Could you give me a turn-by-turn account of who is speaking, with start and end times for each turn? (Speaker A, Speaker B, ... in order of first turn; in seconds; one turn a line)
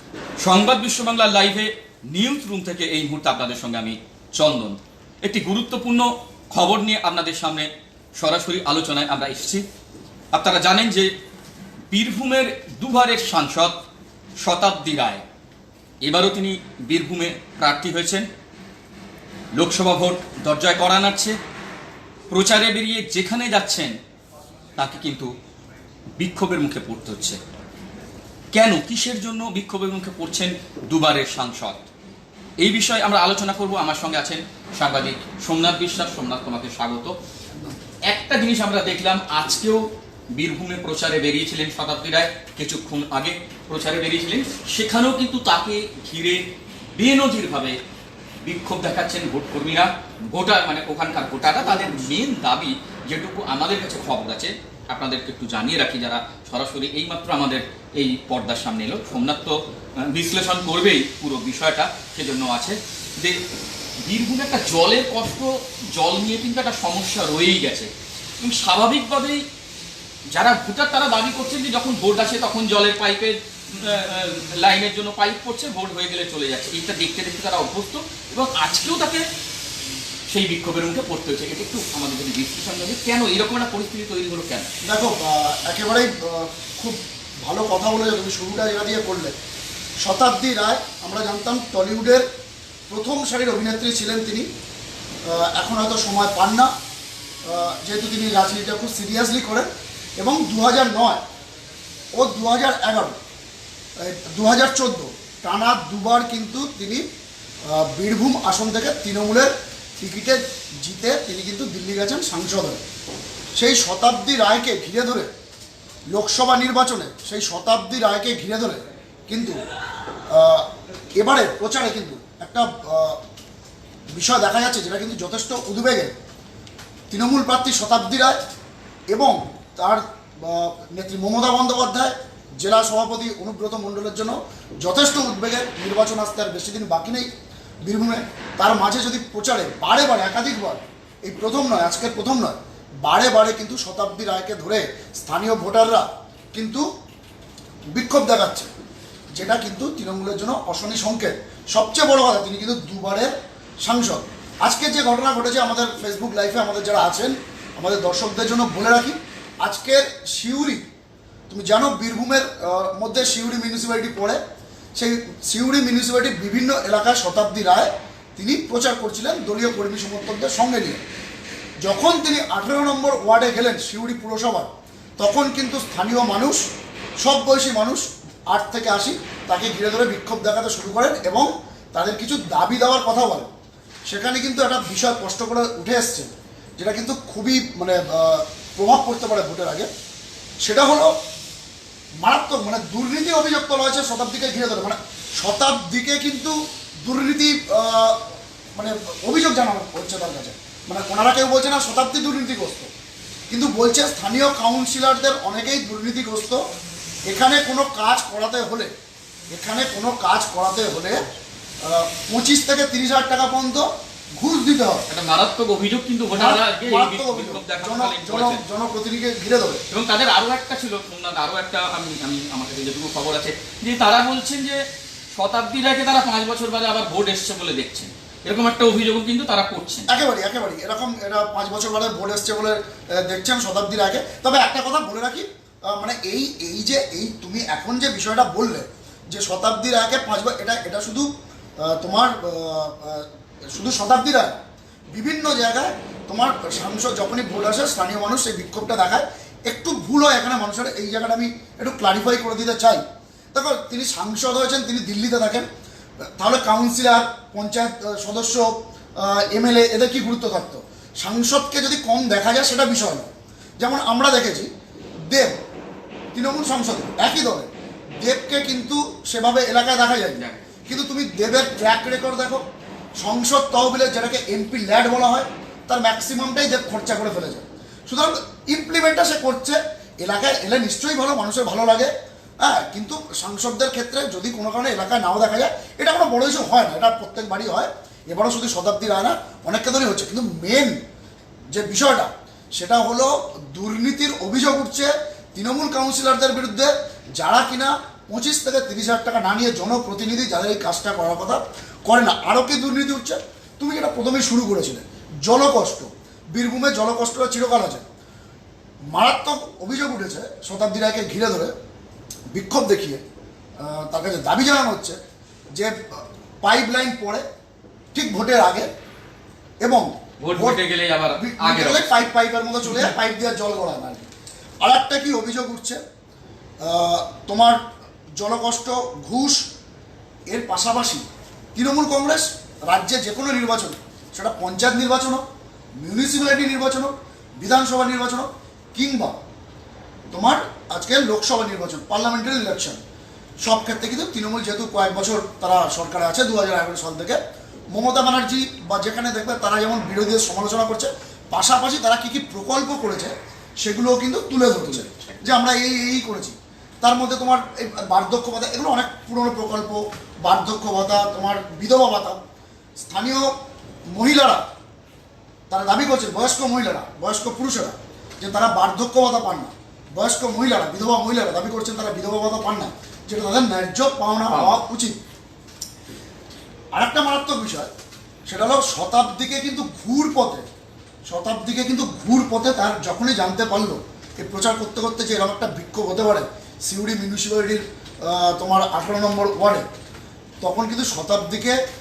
Speaker A: 0.4-9.6
Speaker A: 10.3-11.1
Speaker A: 11.9-13.8
Speaker A: 14.4-15.2
Speaker A: 16.0-18.3
Speaker A: 19.6-21.4
Speaker A: 22.3-23.9
Speaker A: 24.8-25.3
Speaker A: 26.2-27.4
Speaker A: 28.5-31.8
Speaker A: 32.6-37.1
Speaker A: 38.1-47.8
Speaker A: 48.4-63.4
Speaker A: 64.0-69.4
Speaker A: 70.3-79.3
Speaker A: 80.3-84.7
Speaker B: 84.8-89.3
Speaker B: 90.0-92.2
Speaker B: 92.9-94.5
Speaker B: 95.3-96.7
Speaker B: 97.5-99.7
Speaker B: 100.2-101.2
Speaker B: 102.2-103.2
Speaker B: 104.0-107.0
Speaker B: 107.7-112.8
Speaker B: 113.6-115.3
Speaker B: 116.1-119.6
Speaker B: 120.3-120.7
Speaker B: 121.2-123.2
Speaker B: 124.2-126.2
Speaker B: 127.1-128.4
Speaker B: 129.1-137.3
Speaker B: 137.8-146.9
Speaker B: 147.9-148.7
Speaker B: 149.4-153.3
Speaker B: 153.8-160.9
Speaker B: 161.5-164.4
Speaker B: 165.0-171.0
Speaker B: 171.8-176.6
Speaker B: 177.2-183.5
Speaker B: 184.1-189.9
Speaker B: 190.6-191.2
Speaker B: 192.2-198.2
Speaker B: 198.8-202.9
Speaker B: 203.5-206.6
Speaker B: 207.3-208.9
Speaker B: 209.5-211.2
Speaker B: 211.8-215.1
Speaker A: 215.1-218.6
Speaker B: 216.3-219.8
Speaker A: 219.9-230.1
Speaker B: 230.1-244.6
Speaker B: 245.1-253.0
Speaker B: 253.5-255.7
Speaker B: 256.2-263.3
Speaker B: 263.8-264.7
Speaker B: 265.3-265.6
Speaker B: 266.3-267.7
Speaker B: 268.2-272.6
Speaker A: 270.4-270.6
Speaker B: 273.2-291.0
Speaker B: 291.7-308.1
Speaker B: 309.1-311.7
Speaker B: 312.5-313.2
Speaker B: 313.8-315.2
Speaker B: 315.8-317.4
Speaker B: 318.1-318.9
Speaker B: 319.8-320.8
Speaker A: 320.4-322.2
Speaker B: 321.4-324.3
Speaker A: 322.8-323.1
Speaker B: 324.8-326.0
Speaker B: 326.8-327.8
Speaker B: 328.4-329.6
Speaker B: 330.5-335.4
Speaker B: 336.0-339.3
Speaker B: 340.3-343.0
Speaker B: 343.6-347.4
Speaker B: 347.9-362.4
Speaker A: 354.8-355.5
Speaker B: 363.0-363.5
Speaker B: 364.1-364.6
Speaker B: 365.7-375.2
Speaker A: 374.5-374.8
Speaker B: 376.9-377.9
Speaker B: 378.5-380.6
Speaker B: 381.3-389.9
Speaker B: 390.6-391.8